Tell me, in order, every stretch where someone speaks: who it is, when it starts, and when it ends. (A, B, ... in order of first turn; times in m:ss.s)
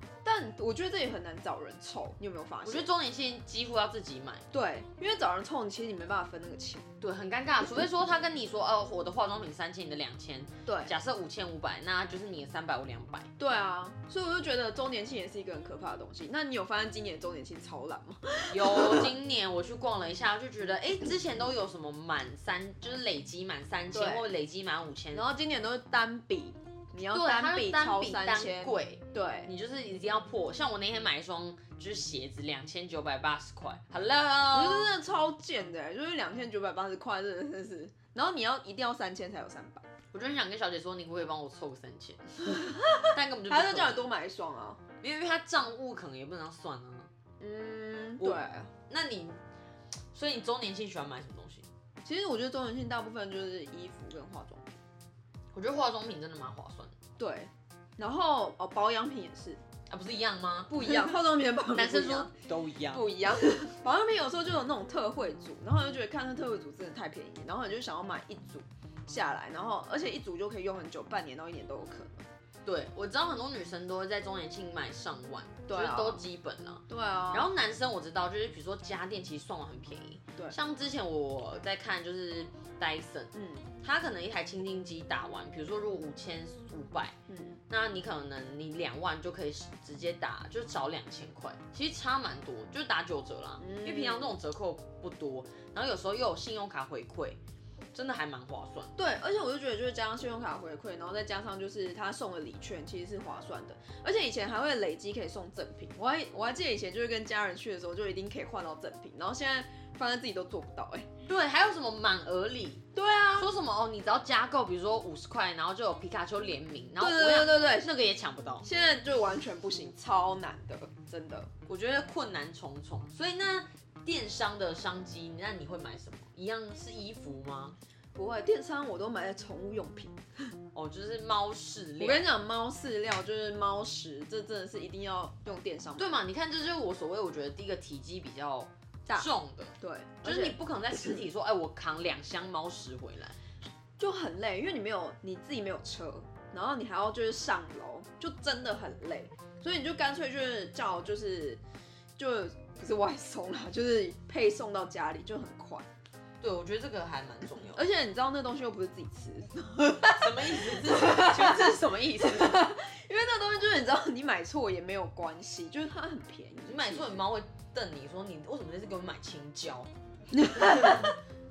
0:00.2-0:02.9 A
0:02.6-0:04.5 B
0:04.5-0:06.9 A
0:07.0-0:13.3 B
0:10.6-0:10.9 A
0:13.4-0:19.1 A
0:18.5-0:25.2 B
0:23.9-0:24.3 A
0:25.1-0:29.5 A
0:27.1-0:34.9 B
0:34.5-0:39.8 A
0:40.1-0:44.1 B
0:42.6-0:44.8 A
0:45.0-0:47.1 B
0:47.4-0:48.7 A
0:48.2-0:49.4 B
0:50.1-0:51.7 B
0:52.0-0:54.8 A
0:55.5-0:56.9 B
0:57.2-0:59.6 A
0:59.9-1:01.2 B
1:00.7-1:02.3 A
1:01.7-1:03.1 B
1:02.9-1:12.3 A
1:12.6-1:27.2 B
1:15.7-1:16.2 A
1:16.9-1:17.5 A
1:23.3-1:23.7 A
1:27.3-1:27.6 A
1:27.7-1:37.4 B
1:33.6-1:34.4 A
1:37.9-1:38.9 B
1:39.0-1:51.1 A
1:51.3-1:58.7 B
1:53.0-1:53.5 A
1:57.0-1:57.9 A
1:58.6-2:01.5 A
2:01.7-2:07.8 B
2:08.2-2:10.2 A
2:10.7-2:12.3 B
2:12.0-2:16.2 A
2:16.0-2:23.4 B
2:19.1-2:20.6 A
2:24.0-2:31.6 A
2:32.2-2:35.9 A
2:36.4-2:37.8 B
2:37.6-2:47.2 A
2:40.2-2:42.7 B
2:46.7-2:49.9 B
2:50.4-2:51.1 A
2:50.5-2:51.2 B